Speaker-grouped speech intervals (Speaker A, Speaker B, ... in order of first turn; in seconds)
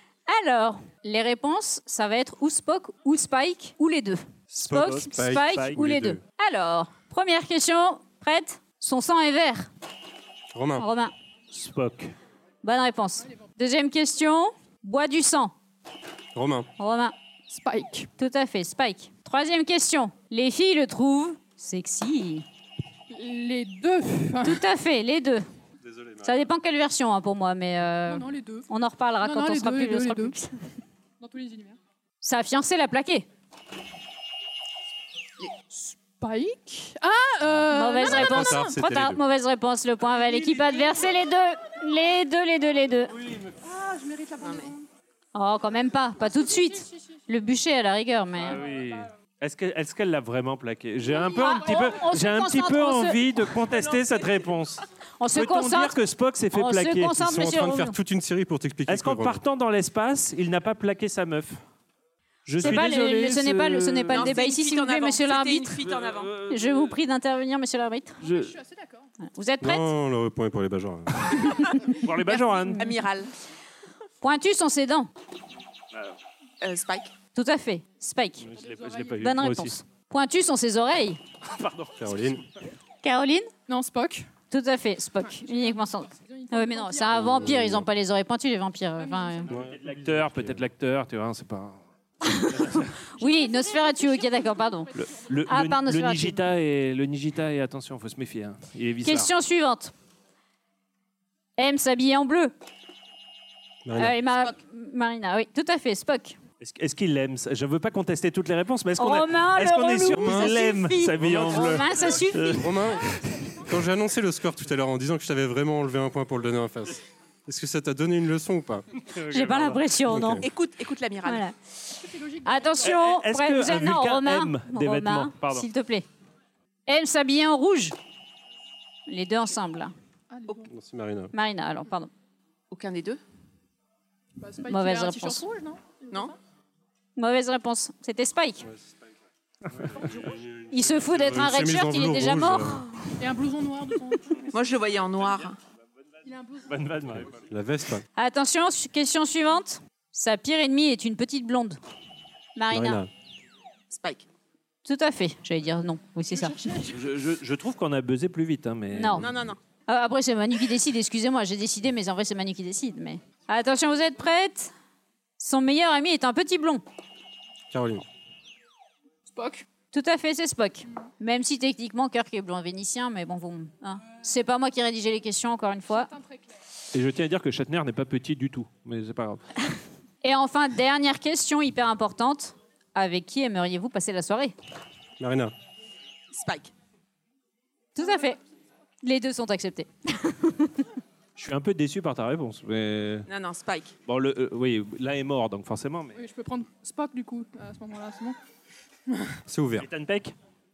Speaker A: 0.3-9.7, 10.8-11.1, 12.6-15.5, 16.8-17.1, 18.2-22.4, 24.4-25.4, 26.2-30.5, 32.2-33.2, 37.7-43.1, 45.3-48.6, 51.3-53.3, 55.2-56.0, 56.5-58.0, 62.6-65.8, 66.5-68.2, 69.2-69.9, 72.7-72.9, 74.2-75.1, 77.3-78.5, 79.2-81.2, 83.0-83.5, 84.5-89.5, 92.2-94.9, 95.5-96.4, 99.0-99.9, 101.6-102.5, 103.9-106.4, 109.0-112.7, 119.3-120.4, 121.2-121.5, 122.4-126.0, 126.9-127.9, 129.1-129.9, 131.3-132.1, 134.7-135.4, 137.2-138.7, 140.7-142.8, 148.2-151.8, 152.6-153.0, 154.8-156.7, 158.9-159.2, 159.9-164.7, 165.4-166.8, 169.9-176.1, 180.2-184.5, 187.9-188.4, 189.0-190.9
Speaker B: 4.6-5.9, 11.5-12.1, 43.2-43.5, 48.4-57.1, 58.9-61.6, 62.5-64.3, 65.8-66.9, 68.2-68.5, 71.9-72.9, 78.4-79.7, 81.5-82.2, 89.5-91.8, 92.3-92.9, 94.9-99.3, 106.6-113.2, 119.0-119.8, 122.8-125.7, 146.7-147.4, 156.9-159.3, 176.9-179.4, 191.3-193.3, 194.1-196.2, 199.8-200.3
Speaker C: 5.1-6.2, 10.5-10.8, 16.3-16.7, 25.8-26.4, 38.0-39.2, 57.1-59.4, 69.6-71.5, 82.0-82.4, 87.1-87.9, 89.5-90.6, 103.8-104.1, 110.1-110.6, 111.2-111.8, 112.4-118.8, 120.1-120.5, 130.7-131.3, 139.8-142.9, 147.3-148.0, 152.7-153.1, 167.7-168.0, 185.2-185.5, 199.5-199.9
Speaker D: 17.5-18.1, 23.1-24.6, 28.1-28.7, 29.2-30.4, 31.2-31.8, 35.7-38.7, 40.4-41.0, 43.6-44.9, 46.2-47.2, 48.7-48.9, 68.2-69.1, 78.5-79.3, 83.7-84.3, 85.2-87.3, 89.0-89.5, 93.2-95.5, 122.0-122.9, 130.3-130.7, 134.4-136.3, 143.2-144.4, 146.2-146.7, 156.3-156.9, 169.3-169.7, 175.9-176.5, 188.0-188.3, 196.1-198.4, 199.1-199.3
Speaker E: 44.4-44.7, 53.6-54.5, 64.1-66.3, 72.3-73.3, 76.6-77.1, 104.3-104.5, 120.4-121.4, 132.7-133.2, 144.5-145.6, 153.9-154.2, 159.1-159.6, 186.3-186.7, 193.3-193.9